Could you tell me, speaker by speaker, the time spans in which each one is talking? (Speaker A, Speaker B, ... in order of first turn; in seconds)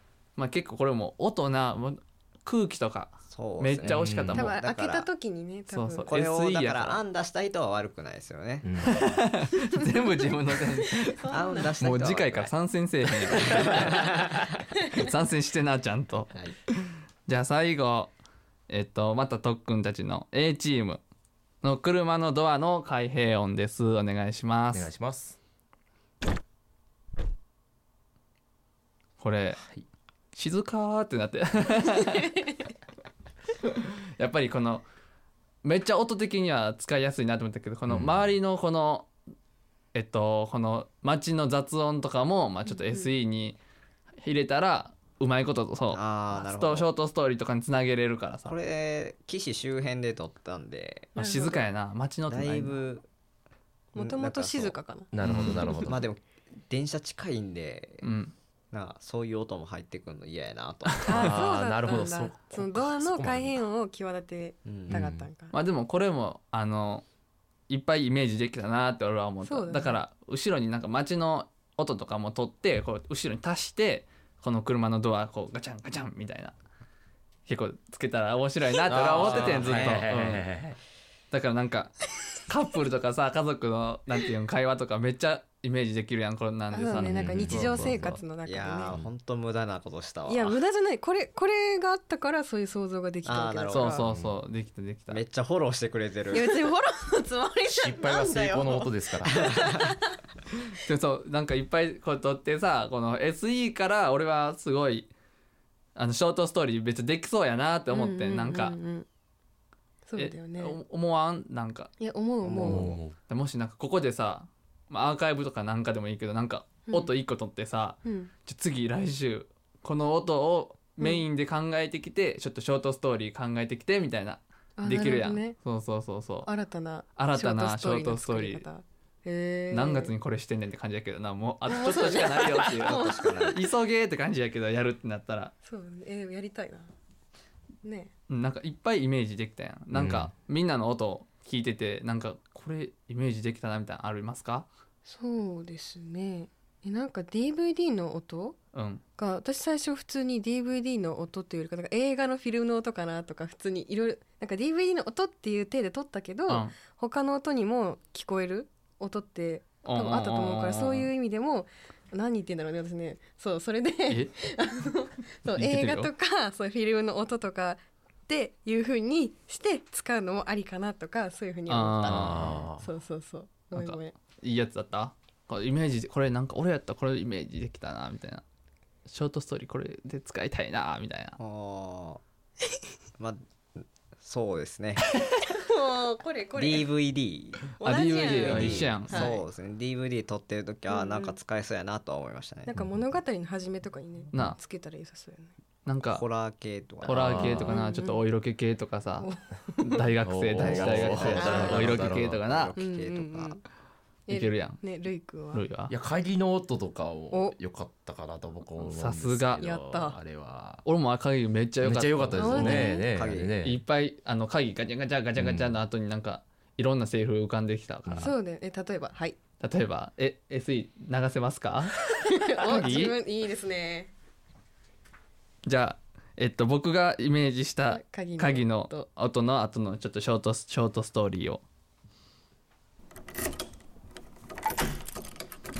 Speaker A: 0.4-4.5, 5.7-7.0, 8.8-14.3, 14.9-18.1, 18.7-21.0, 21.6-24.9, 29.2-29.6, 30.3-32.4, 33.6-34.9, 35.6-39.1, 39.9-43.6, 44.2-48.6, 51.1-52.9, 55.2-55.6, 58.0-58.3, 60.9-61.4, 65.5-67.0, 67.7-76.5, 77.5-80.5, 81.3-81.9, 82.4-87.9, 93.7-95.2, 100.7-105.1, 106.0-108.8, 110.2-111.9, 113.2-126.5, 127.2-128.7, 129.7-135.5, 138.3-144.7, 148.7-149.0, 156.5-156.8, 159.8-161.1, 164.1-164.4, 165.5-166.1, 171.7-172.7, 173.7-178.4, 179.1-181.4, 187.8-189.3, 194.3-194.6, 195.9-196.2, 197.0-202.8, 204.3-204.8, 205.5-205.9, 208.8-209.6, 210.8-212.9, 213.6-218.3, 219.6-223.2, 225.7-231.6
Speaker B: 3.3-5.1, 6.1-8.8, 11.3-12.5, 13.1-14.6, 45.9-46.9, 48.5-51.2, 52.3-53.1, 54.0-54.8, 55.3-58.1, 58.7-61.1, 64.7-65.0, 79.2-80.0, 87.1-90.6, 93.2-93.9, 95.1-96.5, 99.3-99.8, 112.4-113.0, 132.8-133.6, 181.4-182.2, 183.2-185.2, 186.5-187.7, 188.4-192.7, 196.1-197.4, 200.6-203.6, 213.1-213.6
Speaker C: 3.8-4.5, 8.6-9.1, 24.7-25.4, 37.9-38.3, 55.1-56.1, 61.1-63.6, 64.9-65.3, 78.8-80.8, 87.0-88.2, 94.0-94.4, 97.7-99.5, 112.6-113.2, 139.9-140.3, 172.1-172.9, 188.5-188.8, 192.7-193.1, 197.1-197.8, 200.2-202.4, 205.9-210.8, 211.8-213.8, 215.4-215.8, 218.1-218.3
Speaker D: 4.3-6.1, 10.9-11.8, 42.7-43.1, 51.2-51.6, 53.9-55.8, 61.1-65.5, 69.4-70.0, 86.7-89.0, 90.3-94.1, 96.3-100.2, 107.9-109.1, 110.1-110.8, 112.0-112.9, 118.0-118.3, 124.8-125.6, 126.4-130.1, 131.7-133.6, 135.6-136.9, 137.8-138.1, 145.1-148.6, 149.2-174.1, 185.4-187.0, 187.7-189.4, 190.9-191.4, 192.7-195.5, 197.4-198.2, 199.2-200.1, 201.3-202.1, 202.8-203.6, 204.3-205.7, 207.3-207.6, 209.6-210.2, 212.3-213.1, 218.2-219.4, 222.1-224.1, 227.9-229.1